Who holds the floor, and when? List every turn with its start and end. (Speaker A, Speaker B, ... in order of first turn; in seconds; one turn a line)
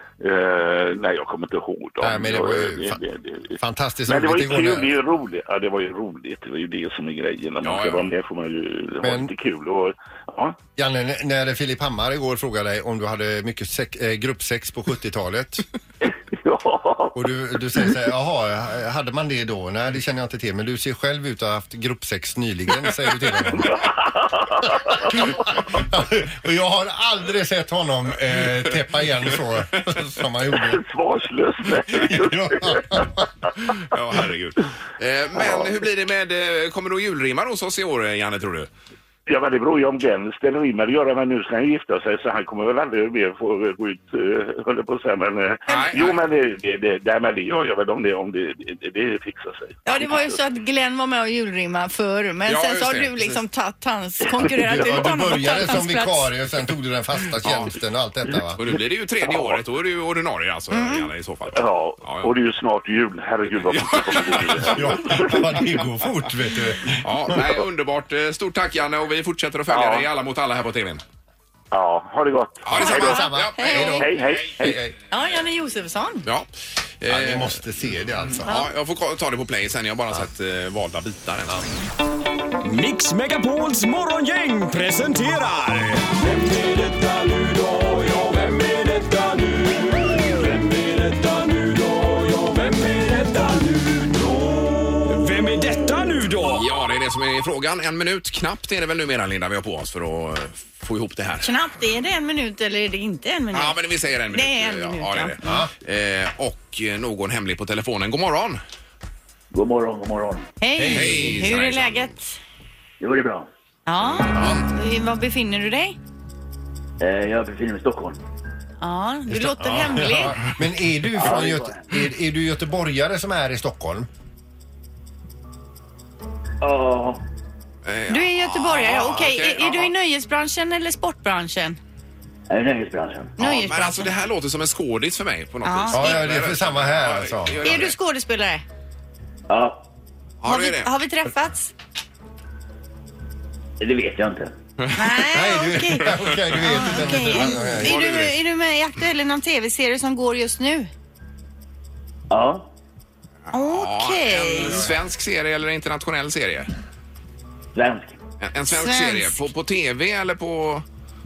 Speaker A: 0.2-10.6
Speaker B: 2.0-3.0
Speaker B: 3.6-4.9
Speaker C: 7.6-8.1
Speaker B: 9.0-9.3
Speaker B: 10.8-15.7
Speaker A: 16.0-17.2
Speaker B: 17.1-23.9
Speaker A: 23.6-25.3
Speaker B: 24.9-30.8
Speaker A: 30.6-33.1
Speaker B: 32.0-33.2
Speaker C: 33.8-38.7
Speaker A: 35.4-35.7
Speaker A: 39.3-50.4
Speaker C: 45.7-46.2
Speaker D: 49.9-56.3
Speaker C: 52.5-53.4
Speaker B: 54.7-58.6
Speaker C: 57.4-57.7
Speaker C: 58.6-62.3
Speaker A: 59.3-59.6
Speaker D: 60.7-61.1
Speaker A: 61.5-65.5
Speaker C: 63.7-65.0
Speaker B: 64.7-67.5
Speaker C: 67.0-71.0
Speaker A: 69.7-70.1
Speaker A: 71.7-73.3
Speaker C: 72.7-74.0
Speaker D: 72.8-74.1
Speaker B: 72.8-74.9
Speaker A: 73.8-74.8
Speaker D: 75.1-76.3
Speaker C: 77.0-77.6
Speaker B: 77.1-78.5
Speaker C: 78.4-81.7
Speaker E: 82.6-96.7
Speaker C: 96.5-101.5
Speaker D: 101.4-103.8
Speaker C: 103.5-108.6
Speaker D: 104.3-105.4
Speaker B: 105.4-105.7
Speaker F: 109.5-110.5
Speaker D: 110.6-112.4
Speaker B: 110.8-111.4
Speaker C: 110.8-112.1
Speaker F: 113.0-113.5
Speaker D: 113.9-116.0
Speaker C: 114.2-114.7
Speaker F: 117.0-118.2
Speaker D: 118.8-120.4
Speaker B: 119.3-124.1
Speaker F: 121.2-121.9
Speaker F: 126.6-127.2
Speaker C: 127.8-129.9
Speaker D: 128.1-131.8
Speaker F: 132.5-133.3
Speaker D: 133.4-134.1
Speaker C: 133.4-137.9
Speaker D: 135.7-136.2
Speaker B: 135.9-137.9
Speaker D: 137.6-138.7
Speaker F: 139.5-139.8
Speaker C: 140.4-140.9
Speaker D: 140.4-141.7
Speaker F: 143.8-144.6
Speaker C: 144.8-145.2
Speaker D: 144.9-150.9
Speaker B: 145.2-148.1
Speaker C: 146.1-148.3
Speaker F: 152.3-152.7
Speaker C: 153.5-156.7
Speaker D: 153.5-154.8
Speaker F: 157.8-158.2
Speaker C: 158.4-160.8
Speaker D: 158.7-159.4